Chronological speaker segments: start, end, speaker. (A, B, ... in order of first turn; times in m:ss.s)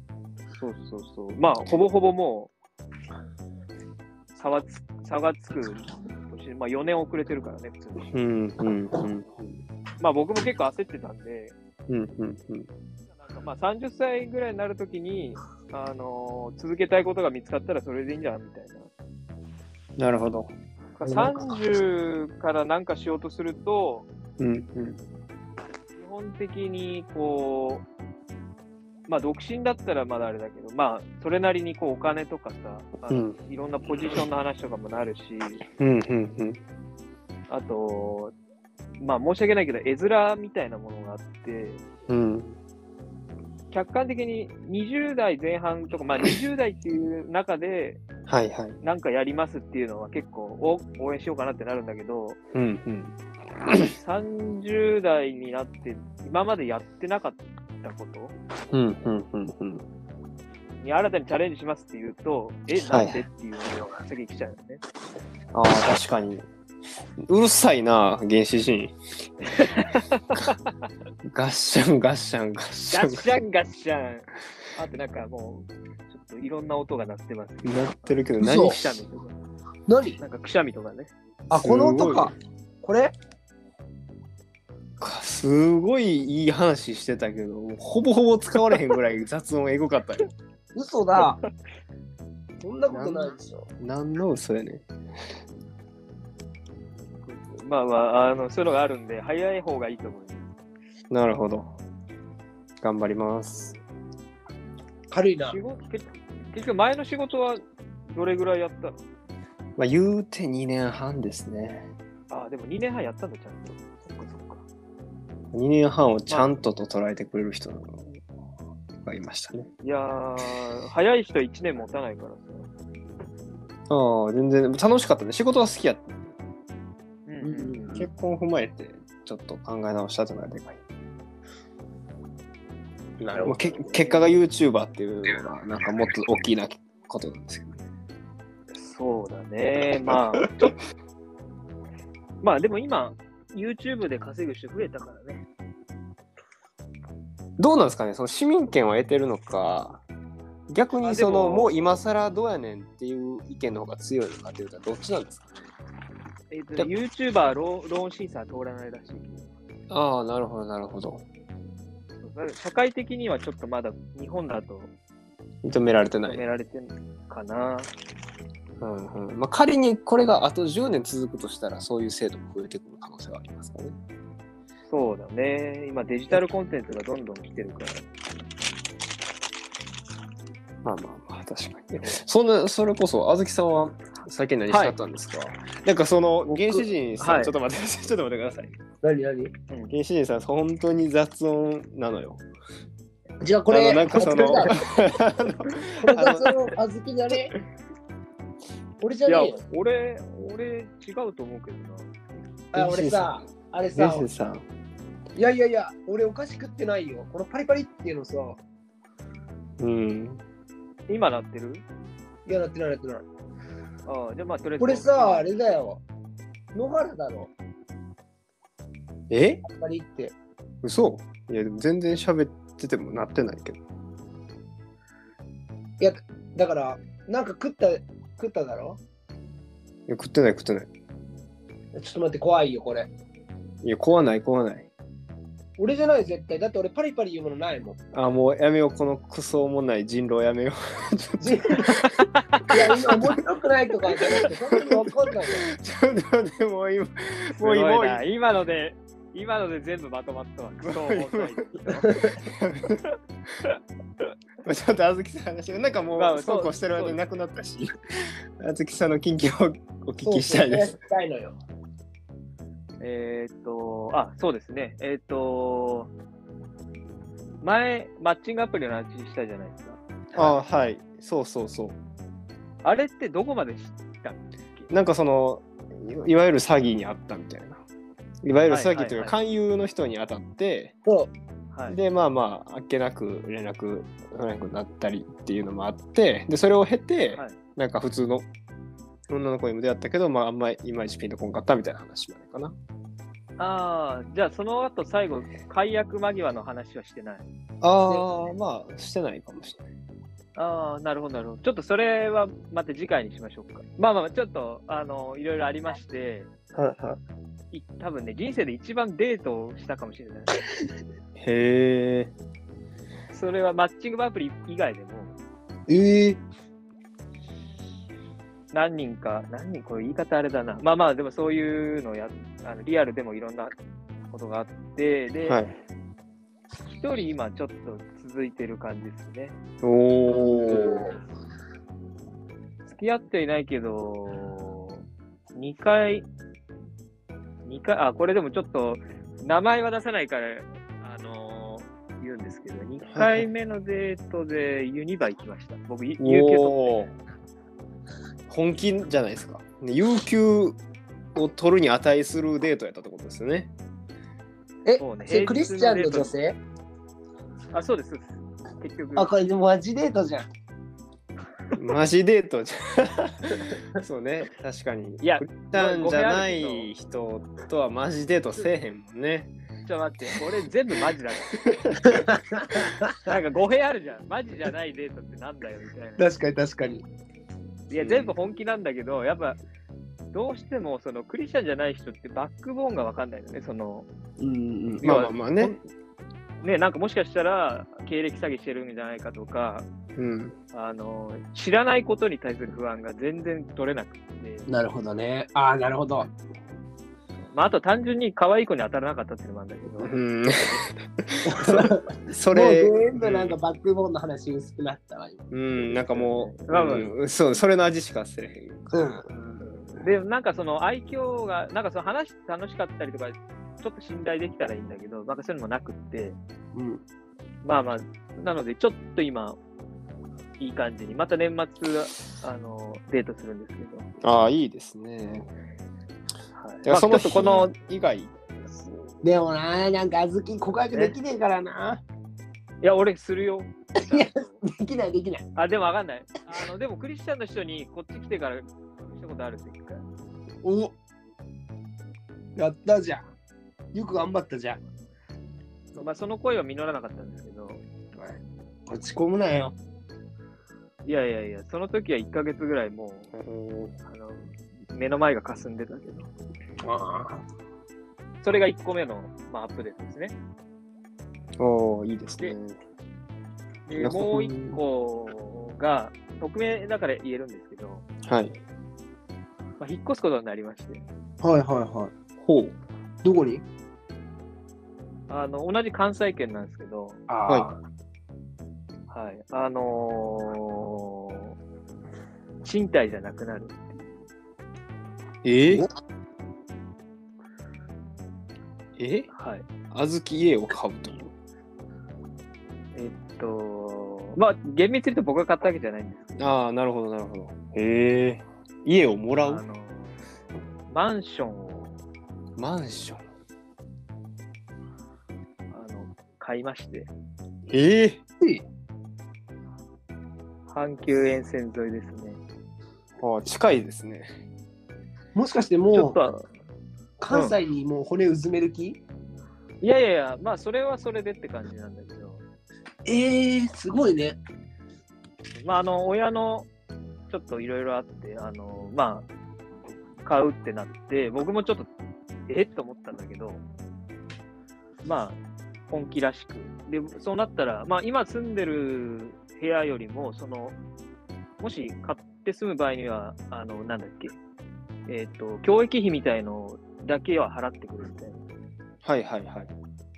0:00.6-0:02.5 A
0:04.3-0:08.1 A
0:08.1-0:09.5 B
0:10.0-0:11.5 A
0:11.9-0:12.7 B
0:13.2-0:18.9 A
0:20.0-0:20.5 B
0:21.0-0:24.1 A
0:24.4-0:25.0 B
0:25.9-0:27.8 A
0:29.1-0:35.6 A
0:33.1-0:33.4 B
0:35.8-0:36.6 B
0:37.5-0:38.3 A
0:39.0-0:41.8 A
0:42.1-0:42.6 B
0:43.7-0:48.0 A
0:48.3-0:48.8 B
0:48.8-0:52.4 A
0:52.5-0:53.1 B
0:53.6-0:53.9 B
0:53.9-0:58.3 A
0:58.7-0:59.8 B
1:00.8-1:04.8 A
1:02.9-1:03.2 B
1:05.5-1:06.4 B
1:07.3-1:09.0 B
1:09.5-1:10.6 A
1:11.2-1:13.4 B
1:12.9-1:17.9 A
1:17.6-1:19.0 B
1:18.4-1:18.8 C
1:18.6-1:19.4 A
1:19.9-1:20.2 C
1:20.2-1:21.1 A
1:21.5-1:23.1 C
1:21.5-1:22.3 B
1:25.0-1:30.3 B
1:30.7-1:31.4 C
1:31.2-1:31.4 A
1:32.6-1:33.7 C
1:32.9-1:34.8 B
1:37.2-1:40.4 A
1:41.1-1:41.7 B
1:42.8-1:43.8 B
1:43.5-1:43.8 A
1:45.1-1:45.6 C
1:45.4-1:49.0 A
1:49.8-1:51.9 B
1:52.3-1:54.6 A
1:55.5-1:58.2 B
1:56.3-1:56.5 A
1:59.0-1:59.7 B
1:59.8-2:02.7 A
2:03.9-2:06.3 B
2:07.2-2:07.8 A
2:07.4-2:08.1 C
2:08.0-2:10.8 B
2:13.2-2:14.1 C
2:13.4-2:17.8 B
2:14.0-2:14.3 A
2:18.7-2:20.7 A
2:20.1-2:20.4 B
2:22.4-2:25.4 A
2:27.6-2:30.0 B
2:30.7-2:35.5 B
2:31.0-2:32.0 A
2:36.5-2:39.5 A
2:39.9-2:41.2 B
2:42.2-2:44.9 A
2:45.6-2:46.4 B
2:46.2-2:47.9 A
2:48.8-2:54.0 B
2:54.9-2:58.0 A
3:00.8-3:08.7 B
3:04.7-3:04.9 A
3:06.5-3:06.8 C
3:07.2-3:07.5 A
3:09.0-3:09.5 C
3:09.9-3:12.4 B
3:13.4-3:14.8 C
3:13.7-3:16.5 B
3:14.3-3:14.6 A
3:16.0-3:17.5 C
3:19.0-3:19.6 C
3:19.2-3:22.1 A
3:22.7-3:24.3 C
3:22.7-3:23.4 B
3:24.0-3:24.6 B
3:25.3-3:28.6 C
3:29.8-3:30.4 B
3:31.1-3:31.8 A
3:32.4-3:33.2 C
3:34.0-3:35.8 A
3:34.8-3:36.0 C
3:36.7-3:37.5 C
3:39.3-3:39.6 B
3:39.6-3:40.3 C
3:40.8-3:43.8 B
3:46.0-3:49.0 C
3:50.1-3:50.9 B
3:51.9-3:53.1 C
3:53.8-3:54.9 B
3:55.8-3:58.0 C
3:58.1-4:02.1 B
4:01.4-4:01.9 C
4:01.9-4:02.8 A
4:02.7-4:05.6 C
4:02.9-4:03.1 B
4:04.4-4:08.2 B
4:07.6-4:12.1 A
4:10.8-4:13.0 B
4:11.9-4:12.2 C
4:14.6-4:20.9 B
4:16.2-4:17.2 A
4:20.2-4:21.5 C
4:23.0-4:26.1 A
4:27.6-4:30.6 A
4:30.3-4:32.0 B
4:32.8-4:34.9 A
4:34.9-4:37.8 B
4:38.4-4:40.9 B
4:38.6-4:39.4 A
4:41.0-4:41.3 C
4:41.9-4:48.5 B
4:49.3-4:52.8 B
4:53.6-4:57.4 A
4:57.8-4:59.8 B
4:58.0-4:58.3 C
5:00.6-5:06.5 A
5:06.7-5:07.2 B
5:07.7-5:10.5 A
5:11.4-5:12.3 B
5:13.3-5:15.3 A
5:15.9-5:16.4 C
5:18.7-5:23.7 A
5:24.3-5:25.6 A
5:25.4-5:25.7 B
5:26.9-5:29.5 A
5:29.8-5:31.1 B
5:32.9-5:35.0 A
5:35.5-5:36.3 A
5:37.6-5:47.1 A
5:43.1-5:43.5 B
5:46.2-5:47.1 B
5:48.5-5:50.8 B
5:51.3-5:53.7 B
5:54.8-5:56.6 C
5:55.0-5:56.3 A
5:57.7-5:59.3 A
5:59.2-6:00.4 C
6:01.7-6:09.5 B
6:05.2-6:06.9 A
6:09.8-6:11.6 A
6:12.1-6:13.0 C
6:13.2-6:16.2 A
6:16.2-6:17.0 C
6:17.9-6:19.6 A
6:18.0-6:18.3 B
6:20.3-6:24.1 A
6:24.4-6:25.7 C
6:25.0-6:25.3 A
6:25.0-6:25.8 B
6:26.6-6:29.9 A
6:30.2-6:30.5 B
6:30.7-6:34.6 A
6:34.7-6:36.3 C
6:37.4-6:40.2 A
6:40.0-6:43.6 B
6:41.5-6:45.5 C
6:45.5-6:50.1 B
6:45.8-6:47.1 A
6:48.9-6:49.2 C
6:50.0-6:56.4 A
6:56.7-6:57.0 C
6:57.6-6:59.6 A
7:00.6-7:04.0 A
7:04.2-7:05.5 B
7:06.5-7:07.7 A
7:06.8-7:08.9 B
7:09.2-7:12.0 C
7:12.8-7:14.6 A
7:14.0-7:15.4 C
7:15.6-7:20.1 A
7:20.6-7:20.9 C
7:22.6-7:23.2 C
7:23.9-7:24.8 C
7:24.8-7:25.1 A
7:26.0-7:27.8 A
7:28.2-7:29.7 C
7:31.0-7:33.3 A
7:33.3-7:33.9 B
7:34.0-7:36.3 A
7:36.8-7:37.4 C
7:38.4-7:40.3 A
7:41.6-7:42.8 B
7:43.9-7:48.0 A
7:43.9-7:44.8 B
7:48.2-7:48.6 B
7:49.8-7:51.0 A
7:51.4-7:52.1 C
7:52.4-7:52.8 B
7:53.2-7:53.6 C
7:55.3-7:57.2 A
7:57.3-7:57.8 C
7:59.1-8:01.6 A
8:02.6-8:04.0 A
8:05.4-8:05.8 B
8:09.0-8:09.3 B
8:09.3-8:09.7 A
8:09.9-8:11.3 B
8:12.9-8:16.5 A
8:16.4-8:19.6 B
8:19.4-8:20.2 A
8:20.8-8:22.0 A
8:22.6-8:23.2 B
8:25.7-8:27.1 A
8:27.7-8:28.2 B
8:30.7-8:32.4 A
8:33.2-8:34.3 B
8:35.3-8:36.2 C
8:35.9-8:36.5 A
8:37.2-8:39.0 C
8:37.3-8:37.6 A
8:39.8-8:42.4 A
8:43.0-8:44.4 C
8:45.6-8:46.7 A
8:47.3-8:49.2 A
8:50.2-8:51.9 A
8:52.5-8:53.6 A
8:55.0-8:55.4 A
8:55.9-9:00.8 A
9:01.6-9:04.4 A
9:05.1-9:08.4 A
9:09.0-9:09.7 B